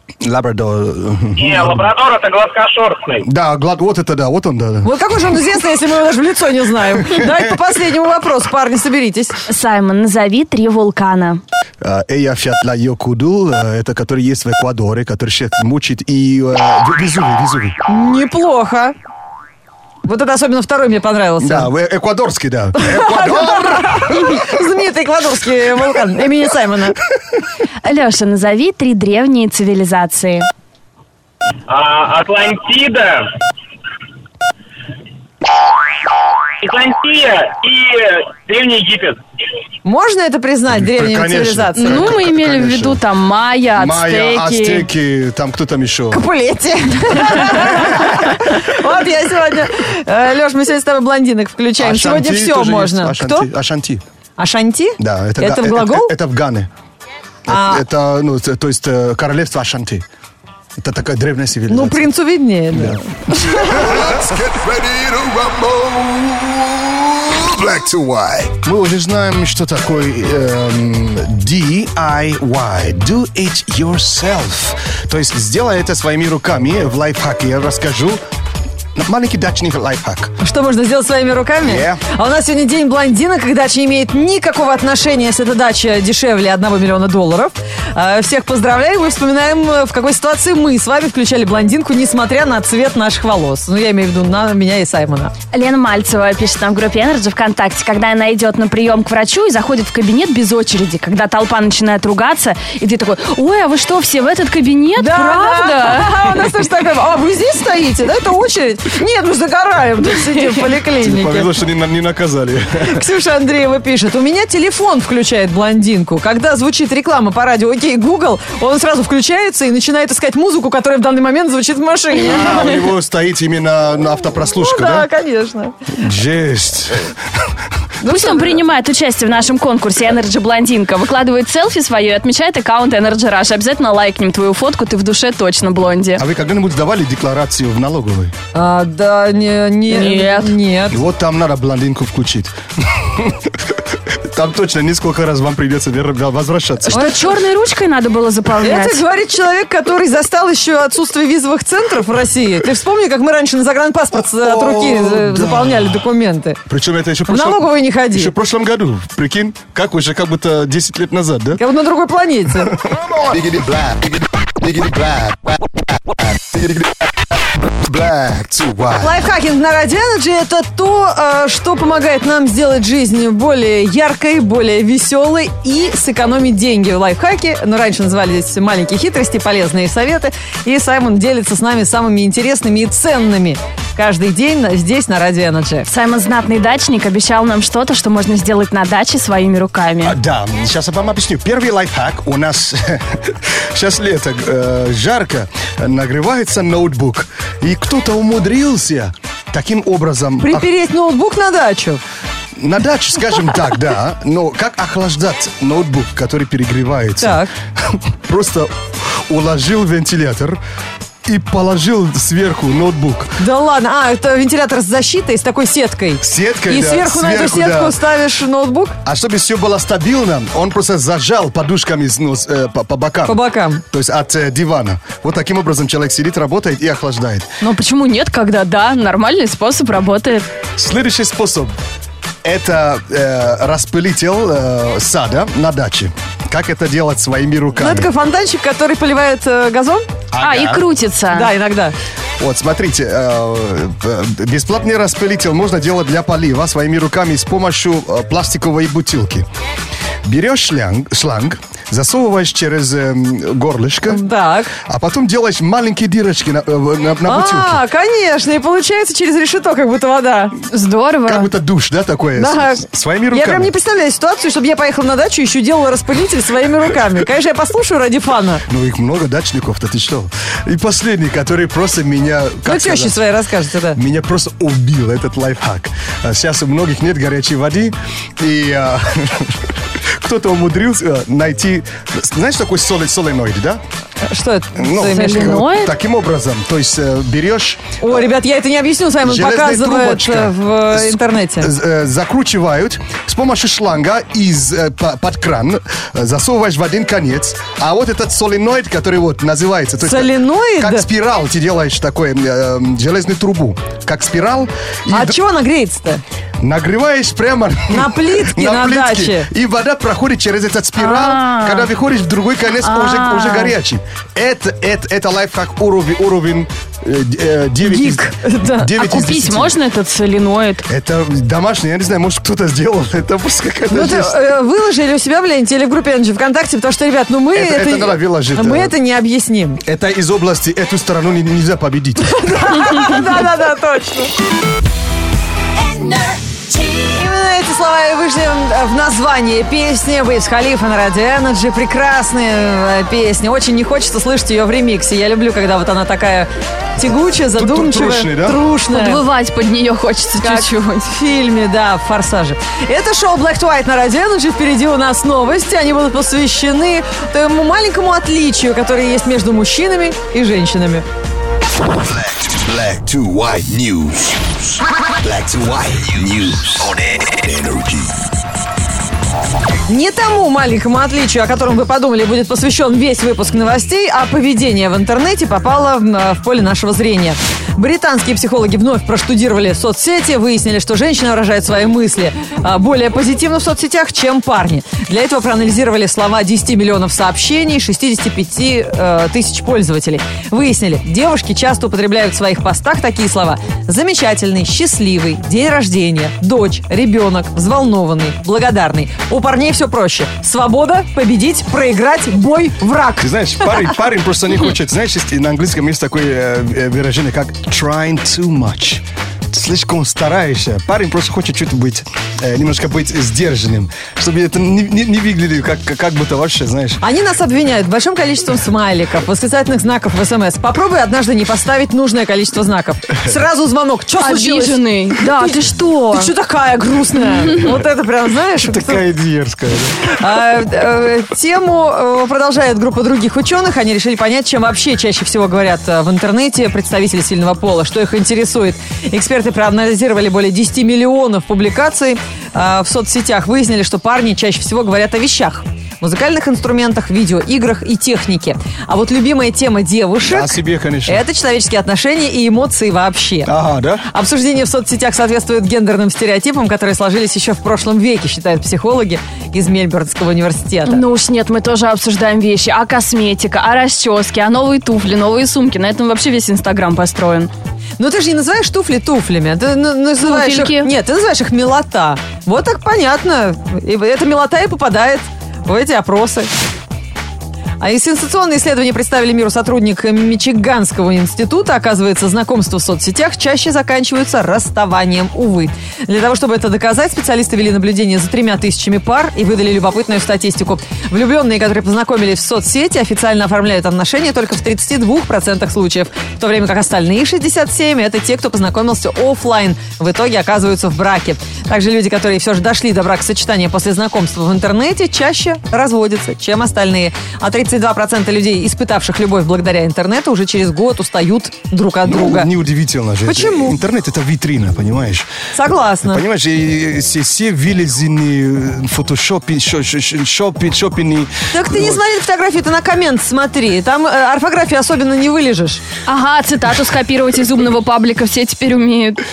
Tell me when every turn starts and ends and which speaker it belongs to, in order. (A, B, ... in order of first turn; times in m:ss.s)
0:00.2-0:01.9 A
0:01.4-0:03.2 B
0:03.2-0:04.9 A
0:04.8-0:09.4 C
0:07.0-0:07.4 A
0:09.5-0:11.4 D
0:11.8-0:17.8 A
0:17.9-0:18.9 C
0:20.0-0:21.7 C
0:21.4-0:24.5 A
0:22.8-0:27.0 C
0:27.8-0:30.5 D
0:31.7-0:33.3 B
0:36.6-0:39.2 B
0:39.8-0:42.1 C
0:40.7-0:43.0 A
0:41.7-0:44.9 D
0:43.7-0:46.2 A
0:46.1-0:53.5 C
0:51.8-0:54.0 A
0:54.4-0:56.1 C
0:55.0-0:56.7 A
0:57.4-1:00.0 A
0:57.5-0:57.8 C
1:00.8-1:02.1 A
1:01.7-1:04.0 C
1:02.7-1:07.0 A
1:04.2-1:06.2 E
1:07.2-1:08.5 E
1:08.5-1:18.2 A
1:19.0-1:20.3 A
1:20.4-1:35.3 C
1:21.6-1:22.0 A
1:35.5-1:46.2 D
1:45.0-1:51.5 C
1:51.0-1:53.0 A
1:52.8-2:02.8 C
2:02.2-2:05.1 A
2:04.5-2:05.9 C
2:06.0-2:07.2 A
2:08.0-2:08.6 C
2:08.0-2:16.2 D
2:16.2-2:18.3 A
2:18.5-2:21.0 C
2:19.9-2:20.5 D
2:20.9-2:27.1 A
2:26.8-2:29.0 D
2:26.9-2:27.3 C
2:28.6-2:36.6 C
2:34.2-2:36.0 A
2:36.7-2:41.6 A
2:37.3-2:38.3 C
2:41.5-2:42.7 C
2:42.6-2:47.0 A
2:47.8-2:49.2 A
2:48.9-3:05.9 C
3:05.9-3:10.1 D
3:10.0-3:20.7 A
3:20.4-3:22.0 C
3:22.6-3:28.7 A
3:27.2-3:27.5 C
3:29.3-3:30.6 A
3:31.2-3:33.4 A
3:33.4-3:39.0 C
3:36.2-3:38.0 A
3:39.0-3:43.4 A
3:43.2-3:43.8 C
3:43.9-3:47.5 A
3:47.6-3:50.5 D
3:50.8-3:51.7 A
3:52.4-3:58.1 A
3:57.8-4:00.0 C
4:00.3-4:00.8 A
4:00.4-4:01.5 D
4:01.3-4:02.0 C
4:02.4-4:09.4 A
4:10.2-4:14.2 A
4:14.1-4:14.7 C
4:14.8-4:17.8 A
4:17.2-4:20.6 C
4:20.7-4:21.5 D
4:21.2-4:23.7 A
4:22.4-4:28.6 C
4:28.7-4:33.2 A
4:32.6-4:34.0 C
4:33.9-4:43.8 A
4:44.2-4:45.7 C
4:44.8-4:47.8 A
4:45.0-4:45.9 D
4:48.0-4:51.7 C
4:49.2-5:05.4 A
5:00.0-5:01.0 C
5:05.1-5:06.2 C
5:06.6-5:19.8 A
5:07.9-5:09.5 C
5:11.0-5:11.9 D
5:12.8-5:13.7 D
5:17.8-5:18.9 C
5:19.0-5:20.8 D
5:20.9-5:24.4 A
5:23.9-5:29.8 C
5:27.5-5:28.9 A
5:29.8-5:32.4 A
5:32.2-5:34.3 C
5:35.9-5:49.2 C
5:47.5-5:48.6 A
5:48.9-5:51.1 D
5:50.4-6:01.0 C
6:02.4-6:04.6 E
6:05.2-6:08.1 E
6:09.9-6:43.9 C
6:43.2-6:57.0 A
6:57.0-7:09.0 C
7:04.2-7:06.3 D
7:08.6-7:10.2 A
7:10.0-7:33.5 C
7:30.2-7:31.2 A
7:33.4-7:34.0 A
7:34.0-7:41.0 C
7:40.8-7:47.5 D
7:48.0-7:56.5 C
7:50.2-7:50.9 D
7:57.8-8:32.5 C
8:32.0-8:35.3 A
8:33.2-8:33.8 C
8:35.5-8:36.2 C
8:36.0-8:42.0 A
8:41.5-8:45.8 C
8:46.1-8:49.2 D